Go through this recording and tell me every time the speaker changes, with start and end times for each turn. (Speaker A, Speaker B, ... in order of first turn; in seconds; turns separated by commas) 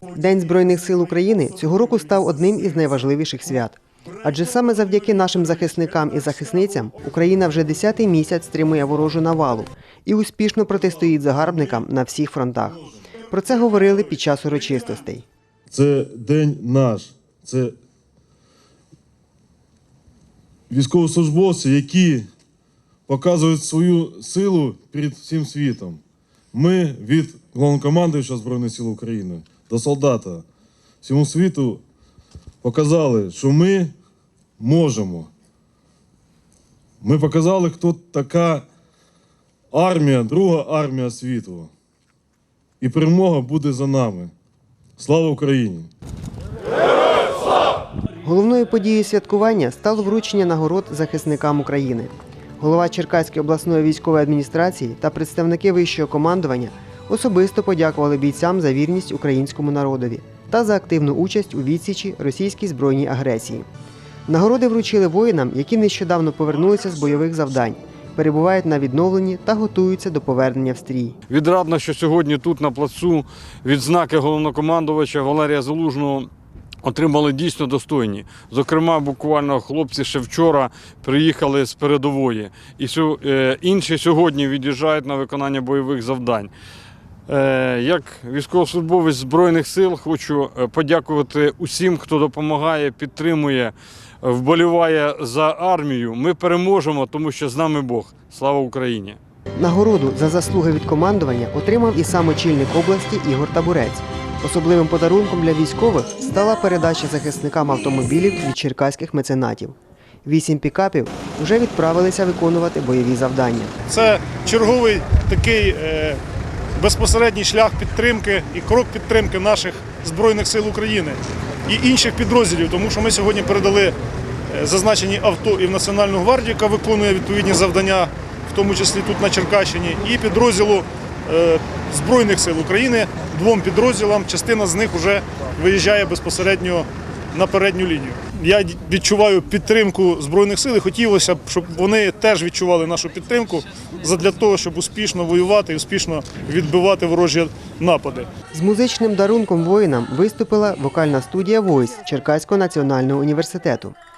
Speaker A: 0.1-15.2, Speaker B: 15.7-17.7, Speaker B: 20.7-22.2, Speaker B: 23.1-26.0, Speaker B: 26.5-30.4, Speaker B: 31.0-31.8, Speaker B: 32.6-33.9, Speaker B: 34.6-35.3, Speaker B: 37.0-38.6, Speaker B: 39.7-41.7, Speaker B: 42.8-44.3, Speaker B: 45.0-45.9, Speaker A: 48.2-63.6, Speaker A: 64.3-71.2, Speaker C: 71.3-76.3, Speaker C: 76.8-86.5, Speaker C: 87.3-99.2, Speaker A: 99.6-113.8, Speaker D: 113.9-116.2, Speaker D: 116.8-124.0, Speaker D: 124.5-148.3, Speaker A: 148.5-153.9